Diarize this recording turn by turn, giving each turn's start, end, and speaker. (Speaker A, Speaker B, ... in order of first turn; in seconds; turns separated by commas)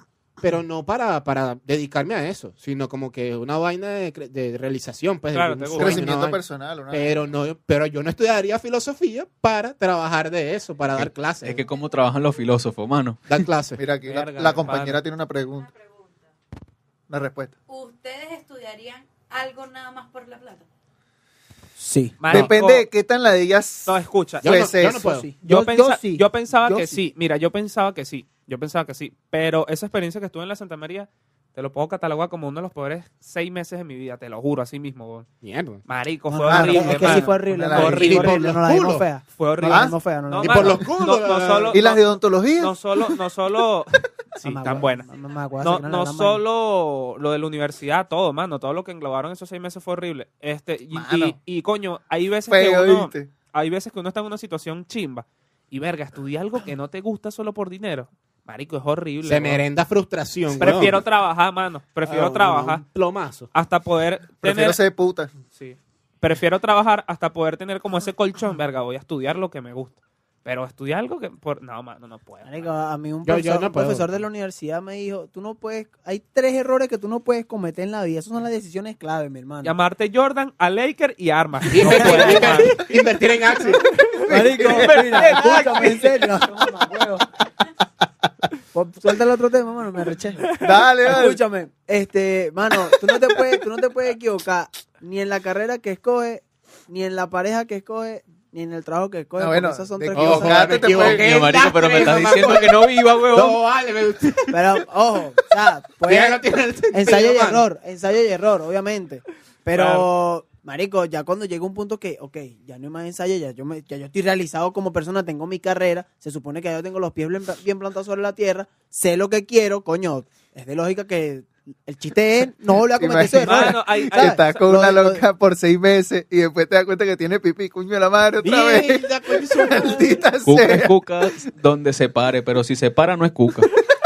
Speaker A: 0.4-6.4, Speaker B: 5.3-6.1, Speaker C: 5.8-7.2, Speaker A: 6.9-11.6, Speaker D: 10.9-13.4, Speaker A: 13.3-14.9, Speaker C: 13.8-15.7, Speaker B: 14.6-15.0, Speaker E: 15.5-16.3, Speaker C: 17.1-17.5, Speaker E: 17.7-20.6, Speaker F: 21.8-22.2, Speaker B: 22.2-22.9, Speaker C: 22.3-25.1, Speaker B: 23.9-24.5, Speaker A: 24.4-25.3, Speaker F: 24.9-27.0, Speaker B: 25.4-35.3, Speaker A: 35.4-35.8, Speaker B: 35.9-38.4, Speaker F: 36.3-40.8, Speaker C: 36.5-38.1, Speaker A: 37.8-39.1, Speaker B: 39.4-45.1, Speaker C: 39.6-39.9, Speaker A: 40.4-41.8, Speaker C: 41.7-42.8, Speaker F: 44.4-46.4, Speaker B: 45.6-59.6, Speaker C: 50.9-51.4, Speaker C: 52.5-53.3, Speaker A: 59.2-61.0, Speaker B: 60.6-62.8, Speaker A: 62.0-63.5, Speaker B: 63.5-64.8, Speaker C: 64.4-65.3, Speaker B: 65.5-72.7, Speaker F: 72.4-79.7, Speaker A: 73.2-74.2, Speaker B: 79.6-82.9, Speaker A: 81.7-83.9, Speaker F: 81.8-82.7, Speaker B: 83.9-85.4, Speaker C: 84.2-86.2, Speaker F: 84.3-87.3, Speaker F: 88.7-90.5, Speaker C: 90.6-91.4, Speaker F: 91.0-100.9, Speaker C: 99.4-101.3, Speaker A: 100.1-104.7, Speaker D: 100.9-103.6, Speaker F: 104.5-125.2, Speaker A: 106.0-107.6, Speaker B: 109.7-110.1, Speaker C: 122.9-130.9, Speaker B: 123.4-124.6, Speaker A: 128.4-130.1, Speaker D: 130.4-133.7